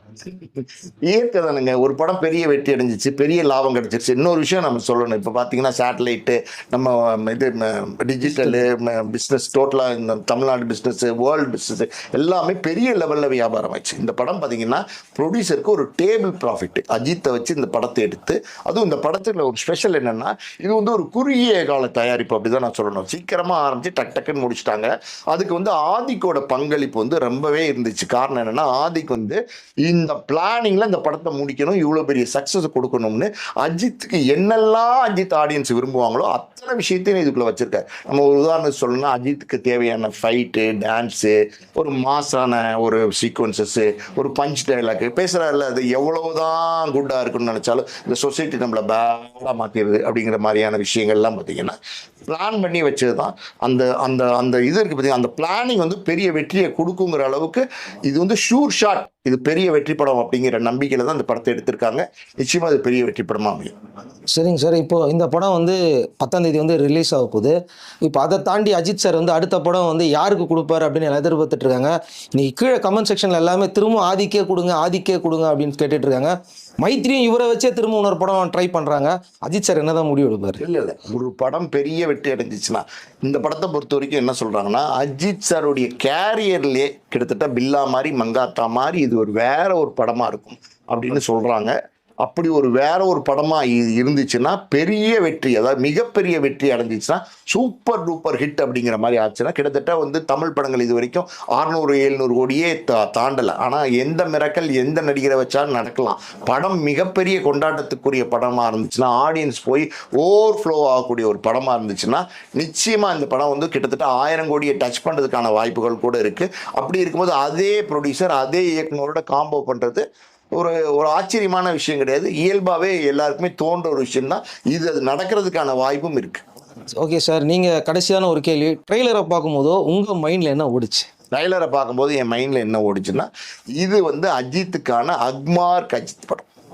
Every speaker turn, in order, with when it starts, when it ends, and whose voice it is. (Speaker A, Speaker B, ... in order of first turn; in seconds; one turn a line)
Speaker A: 0.3-51.8
Speaker B: 8.2-8.6
Speaker A: 52.3-63.7
Speaker B: 64.3-80.6
Speaker A: 80.6-120.0
Speaker A: 120.5-126.4
Speaker B: 127.0-131.1
Speaker A: 131.3-136.5